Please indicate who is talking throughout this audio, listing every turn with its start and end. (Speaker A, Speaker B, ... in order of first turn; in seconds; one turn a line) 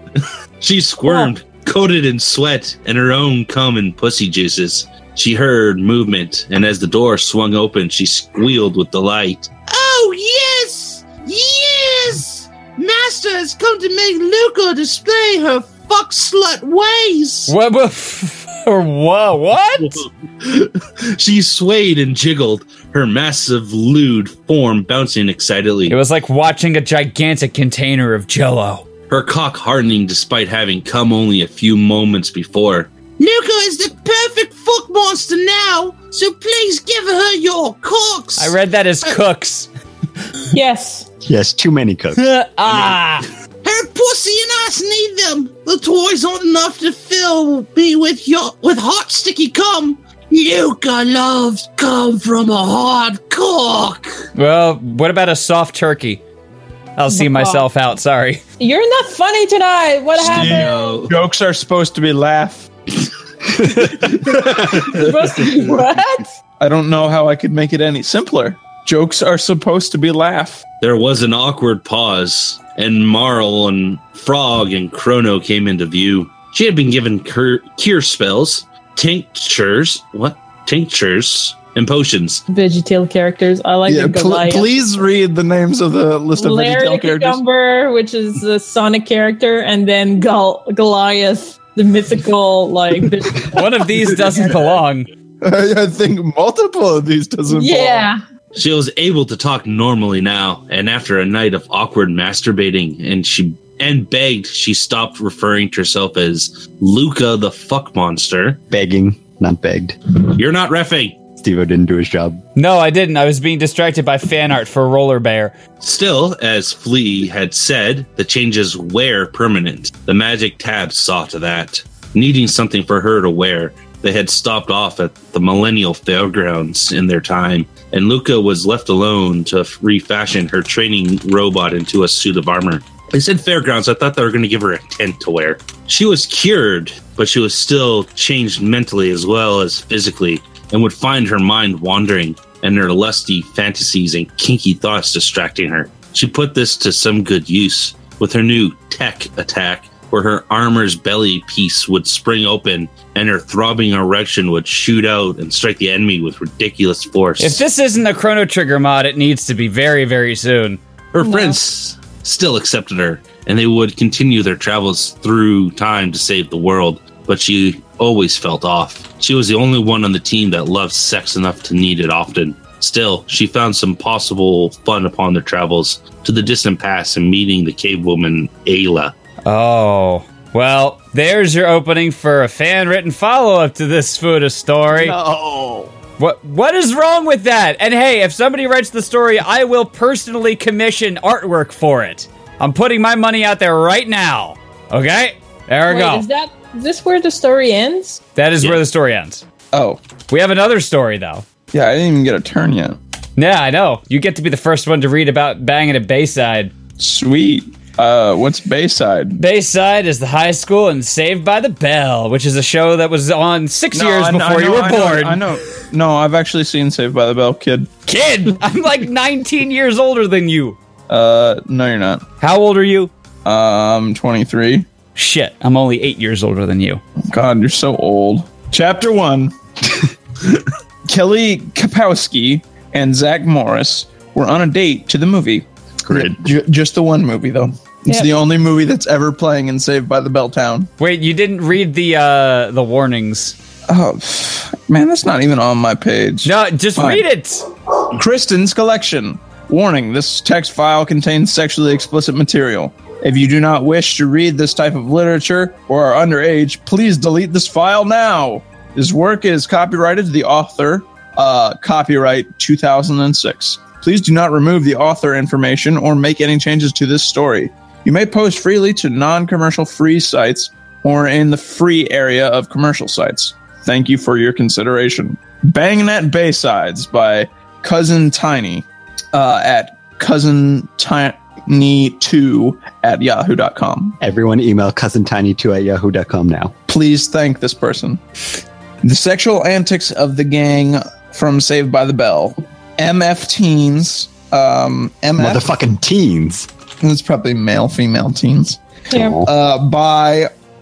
Speaker A: 0.2-17.5
Speaker B: 17.5-20.0
Speaker A: 19.8-26.0
Speaker B: 25.9-28.9
Speaker A: 29.1-38.5
Speaker B: 38.4-39.7
Speaker C: 40.5-41.1
Speaker D: 41.2-42.2
Speaker B: 42.2-43.3
Speaker A: 42.7-43.0
Speaker A: 43.6-54.2
Speaker B: 54.4-56.2
Speaker B: 57.0-58.4
Speaker C: 57.1-57.7
Speaker C: 58.6-60.9
Speaker A: 60.2-61.2
Speaker E: 60.2-62.7
Speaker E: 64.0-65.1
Speaker C: 64.3-66.3
Speaker E: 66.6-70.7
Speaker A: 70.8-82.4
Speaker C: 82.5-84.7
Speaker E: 83.9-87.4
Speaker C: 86.4-94.4
Speaker B: 93.5-95.1
Speaker E: 95.4-98.1
Speaker C: 97.5-98.2
Speaker A: 98.5-108.6
Speaker D: 108.7-110.0
Speaker A: 110.3-111.2
Speaker D: 111.4-112.4
Speaker B: 112.6-115.6
Speaker A: 115.8-157.6
Speaker B: 157.4-160.8
Speaker A: 161.1-179.1
Speaker C: 161.2-161.6
Speaker B: 179.4-185.2
Speaker D: 184.9-185.9
Speaker B: 186.2-196.3
Speaker C: 195.9-198.2
Speaker B: 198.4-199.4
Speaker E: 199.7-200.0
Speaker B: 200.3-201.4
Speaker E: 201.7-203.0
Speaker B: 203.4-206.7
Speaker E: 207.0-209.4
Speaker B: 209.4-215.5
Speaker E: 213.9-217.9
Speaker B: 218.1-220.8
Speaker E: 221.1-222.2
Speaker B: 222.4-223.1
Speaker E: 223.4-224.9
Speaker B: 225.2-227.0
Speaker E: 227.3-229.5
Speaker E: 230.5-240.9
Speaker D: 236.1-236.4
Speaker B: 241.0-243.6
Speaker E: 243.9-247.2
Speaker B: 246.4-247.7
Speaker E: 248.1-284.2
Speaker D: 284.2-286.7
Speaker E: 286.9-288.2
Speaker E: 289.0-295.6
Speaker D: 295.4-296.7
Speaker E: 297.0-298.8
Speaker C: 299.1-299.4
Speaker D: 299.1-299.5
Speaker E: 299.4-300.5